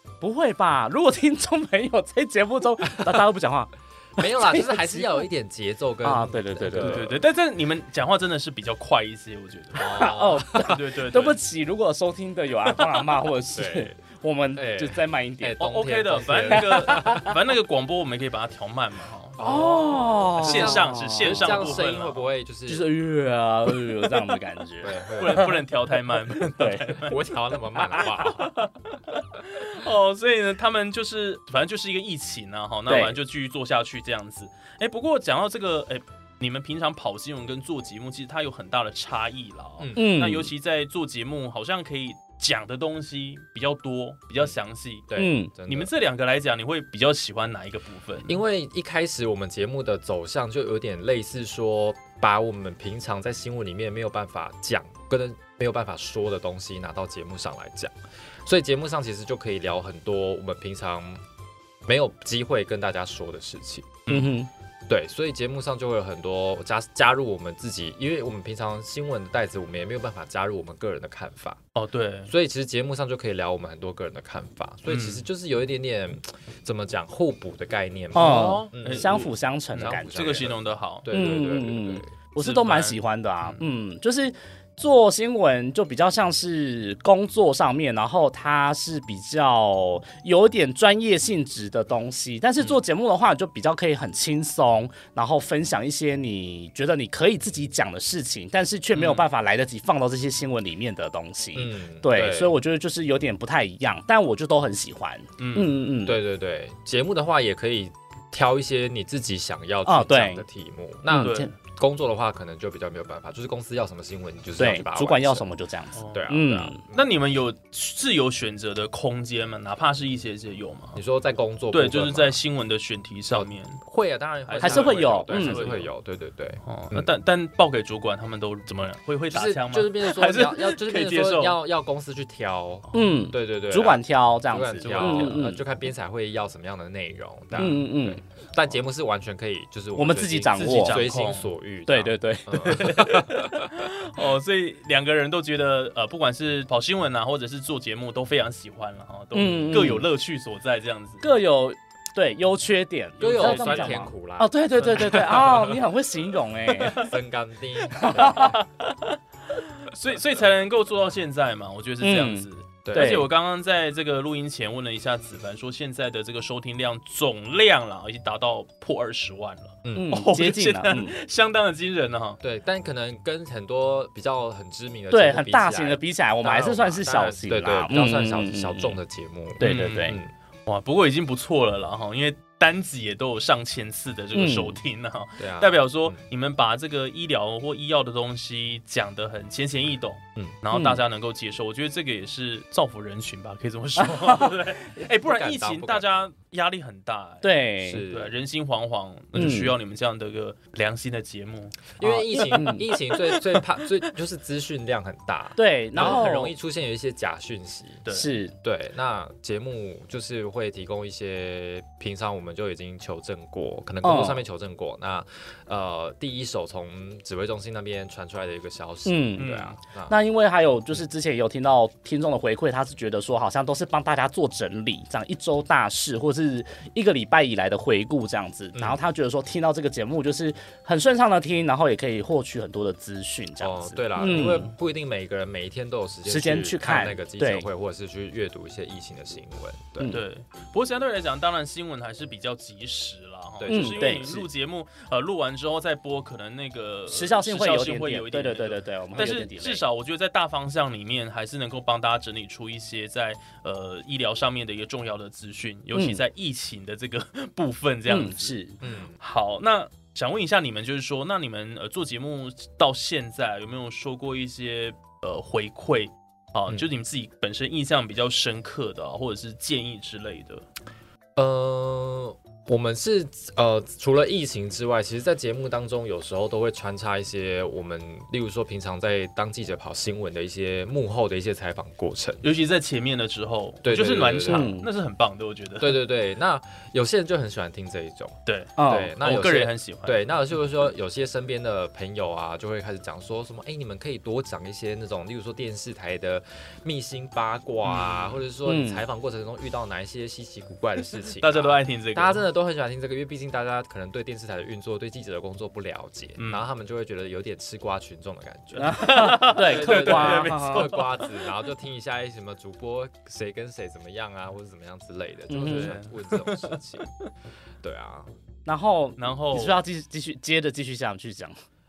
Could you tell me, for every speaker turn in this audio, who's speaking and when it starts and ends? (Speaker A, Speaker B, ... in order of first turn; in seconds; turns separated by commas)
Speaker A: 0.2-5.2, Speaker B: 4.2-7.2, Speaker A: 6.0-7.1, Speaker C: 6.8-11.4, Speaker B: 9.8-10.7, Speaker A: 9.8-15.6, Speaker B: 13.5-14.0, Speaker B: 14.5-17.3, Speaker C: 15.6-19.5, Speaker A: 16.5-17.3, Speaker B: 19.4-22.9, Speaker A: 19.4-21.7, Speaker C: 20.4-22.2, Speaker A: 22.7-25.5, Speaker B: 24.8-25.6, Speaker C: 25.2-45.1, Speaker A: 26.4-27.0, Speaker B: 26.9-28.5, Speaker A: 32.9-33.1, Speaker B: 39.8-40.3, Speaker A: 40.0-40.5, Speaker B: 45.1-45.9, Speaker A: 45.1-45.5, Speaker C: 45.7-48.4, Speaker B: 48.3-57.9, Speaker B: 58.4-61.2, Speaker B: 61.8-64.2, Speaker C: 64.1-64.3, Speaker A: 64.1-64.5, Speaker B: 64.9-71.6, Speaker C: 71.8-72.3, Speaker B: 72.3-82.1, Speaker C: 74.9-75.2, Speaker A: 78.1-80.5, Speaker C: 78.2-81.1, Speaker A: 81.1-106.2, Speaker C: 82.4-83.6, Speaker C: 98.9-99.2, Speaker B: 101.5-102.5, Speaker C: 105.4-105.8, Speaker B: 106.0-115.5, Speaker A: 109.8-110.4, Speaker A: 111.1-111.5, Speaker C: 111.2-111.5, Speaker A: 114.6-116.8, Speaker C: 116.0-116.2, Speaker B: 116.1-117.0, Speaker C: 116.9-121.0, Speaker B: 120.9-122.4, Speaker C: 121.7-123.8, Speaker B: 123.3-127.1, Speaker C: 124.5-125.9, Speaker A: 124.6-125.7, Speaker C: 126.6-131.6, Speaker B: 129.3-143.7, Speaker A: 132.9-135.6, Speaker C: 134.8-135.4, Speaker C: 137.5-137.8, Speaker A: 137.6-138.2, Speaker A: 139.9-141.0, Speaker C: 140.5-141.5, Speaker A: 141.9-143.2, Speaker C: 142.8-151.2, Speaker A: 149.3-150.1, Speaker A: 151.2-157.1, Speaker C: 153.2-154.1, Speaker B: 153.2-155.8, Speaker C: 154.8-155.7, Speaker C: 156.8-157.1, Speaker B: 156.9-158.6, Speaker C: 157.9-159.2, Speaker A: 157.9-158.5, Speaker C: 159.8-172.4, Speaker A: 162.0-163.3, Speaker B: 162.8-163.2, Speaker B: 169.8-170.1, Speaker A: 169.9-171.1, Speaker B: 172.4-180.3, Speaker A: 175.1-179.0, Speaker A: 179.6-180.2, Speaker C: 179.6-203.6, Speaker A: 184.3-184.8, Speaker B: 185.4-186.2, Speaker A: 190.7-191.0, Speaker A: 194.0-194.7, Speaker B: 195.1-196.3, Speaker A: 197.4-198.0, Speaker B: 197.8-198.3, Speaker A: 199.3-199.7, Speaker B: 202.0-208.1, Speaker A: 202.3-202.8, Speaker A: 205.6-206.5, Speaker C: 206.0-206.2, Speaker C: 208.1-208.3, Speaker A: 208.1-208.5, Speaker B: 208.6-220.1, Speaker A: 214.0-214.4, Speaker A: 219.1-219.5, Speaker C: 219.4-219.7, Speaker A: 220.1-234.7, Speaker B: 228.7-229.0, Speaker B: 233.6-240.2, Speaker A: 236.2-237.7, Speaker C: 240.1-258.5, Speaker B: 243.6-244.4, Speaker A: 243.7-244.4, Speaker A: 247.1-249.8, Speaker A: 255.9-256.2, Speaker A: 258.1-258.8, Speaker B: 258.8-259.2, Speaker C: 259.2-270.6, Speaker B: 271.4-282.4, Speaker C: 282.4-286.0, Speaker B: 283.8-284.7, Speaker A: 284.5-284.9, Speaker B: 285.8-317.1, Speaker C: 288.5-290.2, Speaker A: 288.8-289.1, Speaker C: 297.8-298.4, Speaker A: 298.6-299.0, Speaker C: 301.4-302.4, Speaker C: 306.4-306.6, Speaker C: 308.7-311.3, Speaker A: 308.8-310.9, Speaker A: 315.5-315.9, Speaker C: 315.6-317.1, Speaker B: 317.8-318.3, Speaker A: 318.6-321.6, Speaker C: 319.2-319.8